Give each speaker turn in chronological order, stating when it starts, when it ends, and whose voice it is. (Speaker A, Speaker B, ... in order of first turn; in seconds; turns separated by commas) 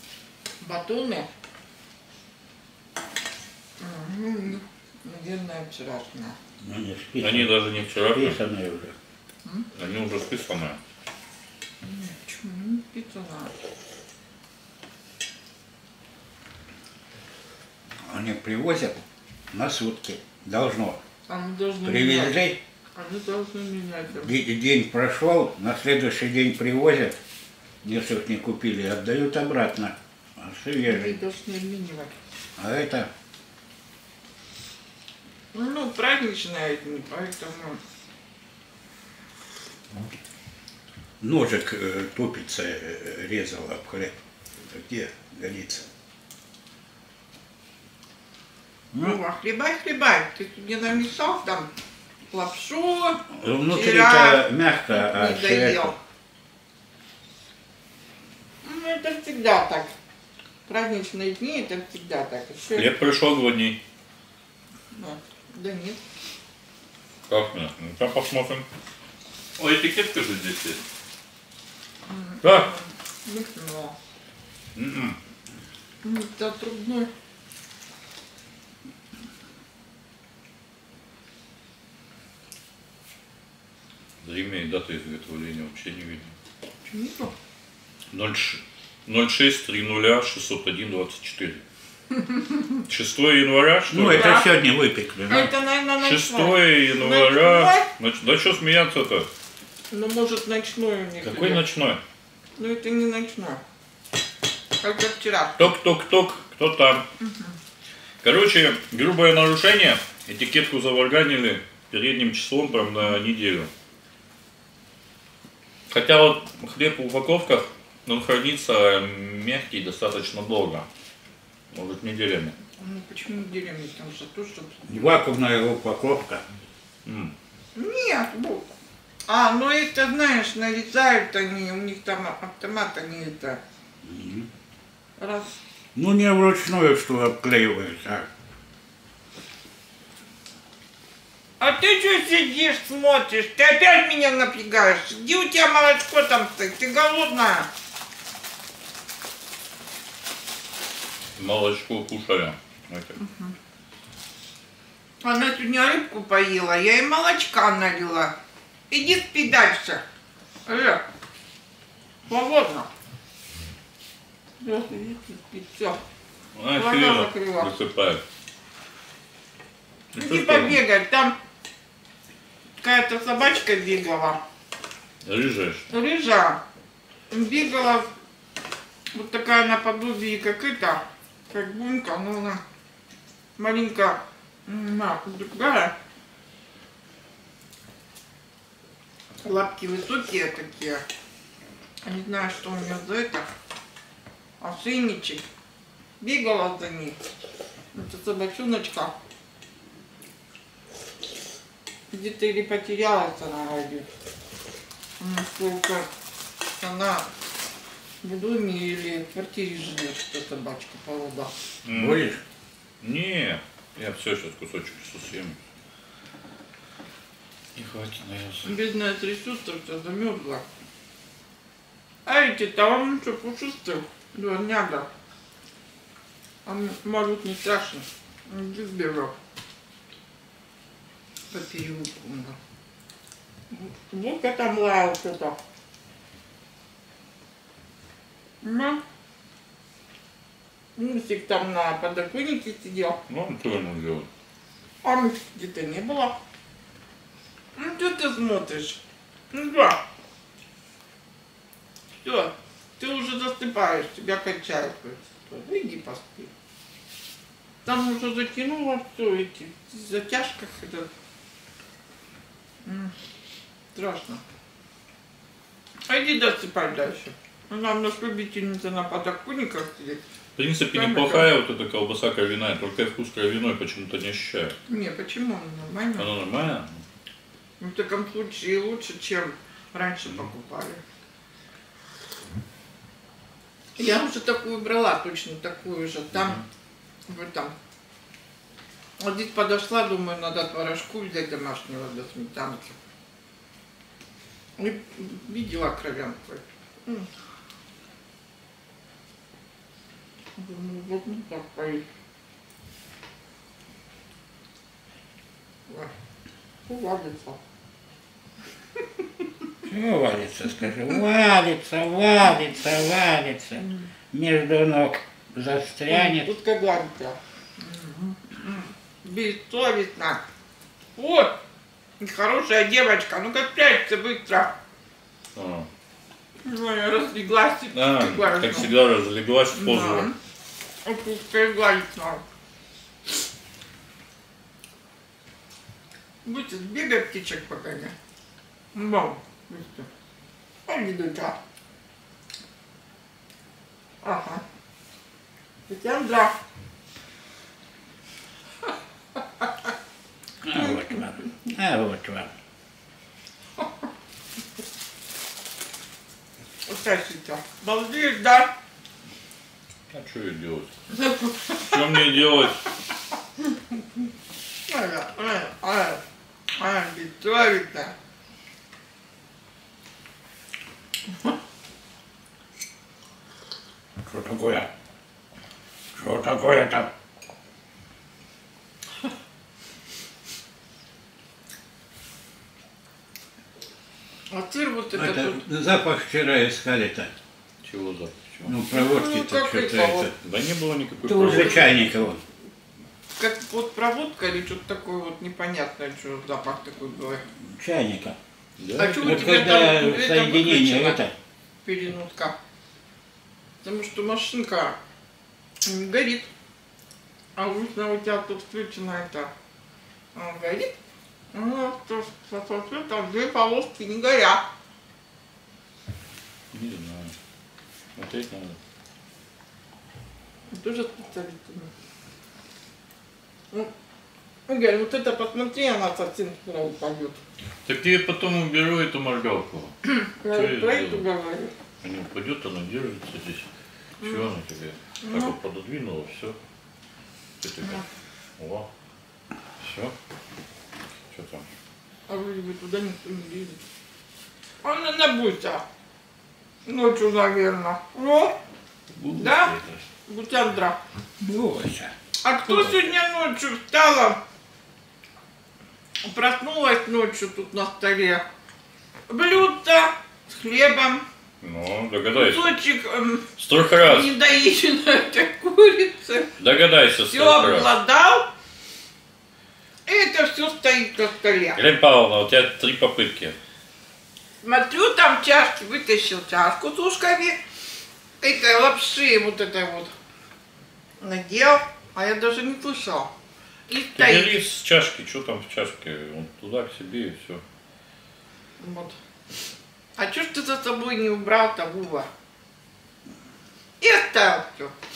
Speaker A: 0.6-1.3, Speaker A: 3.8-6.4, Speaker B: 6.6-7.5, Speaker C: 7.2-8.4, Speaker B: 8.1-8.9, Speaker C: 9.7-10.8, Speaker A: 11.8-13.5, Speaker B: 18.0-21.0, Speaker A: 21.3-22.4, Speaker B: 21.8-22.6, Speaker A: 23.0-24.3, Speaker B: 24.2-27.2, Speaker B: 27.8-31.2, Speaker A: 30.9-32.1, Speaker B: 32.6-33.1, Speaker A: 35.5-37.8, Speaker B: 41.2-45.9, Speaker B: 48.9-49.2, Speaker A: 49.0-51.7, Speaker A: 52.3-56.0, Speaker B: 53.3-56.0, Speaker A: 58.6-59.9, Speaker A: 60.7-62.9, Speaker C: 62.8-63.8, Speaker A: 64.9-66.0, Speaker C: 67.3-68.7, Speaker C: 69.6-70.8, Speaker A: 72.1-74.0, Speaker C: 72.4-72.7, Speaker C: 74.8-75.2, Speaker A: 76.0-77.1, Speaker C: 84.2-86.3, Speaker A: 86.8-87.3, Speaker C: 88.1-91.6, Speaker C: 92.9-94.4, Speaker B: 93.9-95.5, Speaker A: 94.2-94.5, Speaker A: 95.3-97.9, Speaker C: 96.0-99.3, Speaker A: 99.9-101.6, Speaker C: 101.2-102.0, Speaker A: 102.6-103.6, Speaker A: 104.8-105.6, Speaker C: 105.6-107.1, Speaker A: 107.2-107.5, Speaker C: 108.2-113.7, Speaker C: 115.9-120.9, Speaker C: 121.7-122.6, Speaker A: 122.8-124.8, Speaker B: 124.9-126.4, Speaker C: 127.0-127.3, Speaker A: 127.8-128.7, Speaker A: 129.3-133.6, Speaker B: 134.0-134.5, Speaker A: 135.2-135.6, Speaker B: 135.9-138.3, Speaker A: 141.6-147.7, Speaker C: 151.4-153.2, Speaker A: 153.2-153.5, Speaker A: 155.2-158.3, Speaker A: 158.9-160.0, Speaker A: 160.7-161.0, Speaker A: 162.3-162.9, Speaker A: 164.6-166.0, Speaker C: 166.6-168.2, Speaker A: 166.7-167.7, Speaker C: 170.1-170.8, Speaker A: 170.1-171.3, Speaker A: 172.8-174.4, Speaker C: 175.2-175.9, Speaker A: 175.9-176.6, Speaker A: 177.3-178.1, Speaker A: 179.1-182.6, Speaker A: 183.6-185.9, Speaker A: 189.4-191.1, Speaker A: 192.0-193.5, Speaker A: 194.6-195.4, Speaker A: 196.2-197.2, Speaker A: 197.9-199.1, Speaker A: 202.1-204.1, Speaker A: 205.2-206.1, Speaker A: 206.8-207.3, Speaker A: 208.2-211.5, Speaker C: 211.8-212.3, Speaker B: 211.9-212.4, Speaker C: 213.0-215.6, Speaker C: 217.8-218.7, Speaker A: 218.6-220.6, Speaker A: 222.2-225.1, Speaker A: 226.6-229.3, Speaker A: 231.5-232.6, Speaker A: 233.7-235.6, Speaker A: 238.6-239.0, Speaker A: 241.0-243.2, Speaker C: 243.3-244.3, Speaker A: 245.0-246.3, Speaker A: 247.8-249.0, Speaker A: 249.5-250.0, Speaker A: 252.2-256.5, Speaker A: 257.9-261.1, Speaker A: 262.9-263.1, Speaker A: 263.9-264.4, Speaker A: 266.1-270.2, Speaker C: 270.6-274.8, Speaker A: 270.9-271.5, Speaker A: 274.9-276.3, Speaker C: 276.2-277.0, Speaker A: 277.8-281.0, Speaker A: 284.0-286.6, Speaker C: 286.4-286.6, Speaker A: 287.3-287.7, Speaker A: 289.2-292.9, Speaker A: 294.8-297.3, Speaker A: 300.6-302.0, Speaker A: 306.9-307.6, Speaker B: 309.8-316.5, Speaker A: 316.1-320.4, Speaker A: 321.2-321.6, Speaker A: 322.2-324.7, Speaker C: 325.6-325.9, Speaker A: 326.6-328.9, Speaker C: 327.9-330.3, Speaker A: 329.8-330.4, Speaker A: 331.0-332.4, Speaker A: 336.4-338.1, Speaker A: 338.9-340.1, Speaker A: 340.9-341.6, Speaker A: 344.2-344.6, Speaker A: 345.9-346.6, Speaker B: 350.6-352.5, Speaker A: 356.9-358.7, Speaker C: 360.1-360.9, Speaker A: 361.1-362.4, Speaker C: 361.8-362.8, Speaker A: 364.9-366.2, Speaker A: 366.8-368.1, Speaker B: 374.2-374.9, Speaker B: 376.1-377.1, Speaker A: 384.5-385.6, Speaker B: 385.1-387.3, Speaker C: 387.8-388.8, Speaker B: 388.6-390.3, Speaker A: 388.9-390.3, Speaker C: 390.4-391.9, Speaker B: 391.2-392.4, Speaker A: 391.5-391.9, Speaker A: 393.4-397.4, Speaker B: 397.6-398.4, Speaker C: 398.8-399.5, Speaker A: 399.0-401.2, Speaker B: 399.0-401.3, Speaker A: 401.9-402.6, Speaker A: 403.8-405.0, Speaker A: 405.9-406.5, Speaker A: 407.6-409.5, Speaker A: 410.4-410.9, Speaker A: 411.5-414.6, Speaker C: 416.7-417.4, Speaker C: 418.1-418.8, Speaker A: 420.7-421.9, Speaker A: 424.7-427.4, Speaker C: 427.9-430.0, Speaker A: 430.1-431.7, Speaker C: 430.5-431.2, Speaker C: 432.0-433.7, Speaker A: 434.2-434.5, Speaker C: 434.2-436.6, Speaker A: 435.2-435.6, Speaker C: 437.6-438.0, Speaker C: 438.6-438.9, Speaker C: 439.8-440.1, Speaker C: 441.3-441.6, Speaker A: 442.3-443.8, Speaker A: 444.8-445.8, Speaker A: 446.9-448.6, Speaker B: 449.2-449.8, Speaker A: 449.3-449.8, Speaker A: 450.3-451.0, Speaker B: 451.4-452.1, Speaker A: 452.4-454.4, Speaker A: 456.2-458.4, Speaker A: 459.3-461.2, Speaker C: 461.6-462.8, Speaker A: 462.3-466.6, Speaker C: 463.6-464.3, Speaker C: 466.6-467.9, Speaker A: 467.3-468.5, Speaker A: 470.1-471.8, Speaker C: 471.8-473.6, Speaker A: 474.6-477.6, Speaker A: 478.4-480.1, Speaker A: 481.2-483.3, Speaker A: 483.9-484.6, Speaker C: 484.2-487.6, Speaker A: 488.8-489.1, Speaker A: 490.2-492.3, Speaker A: 494.0-494.9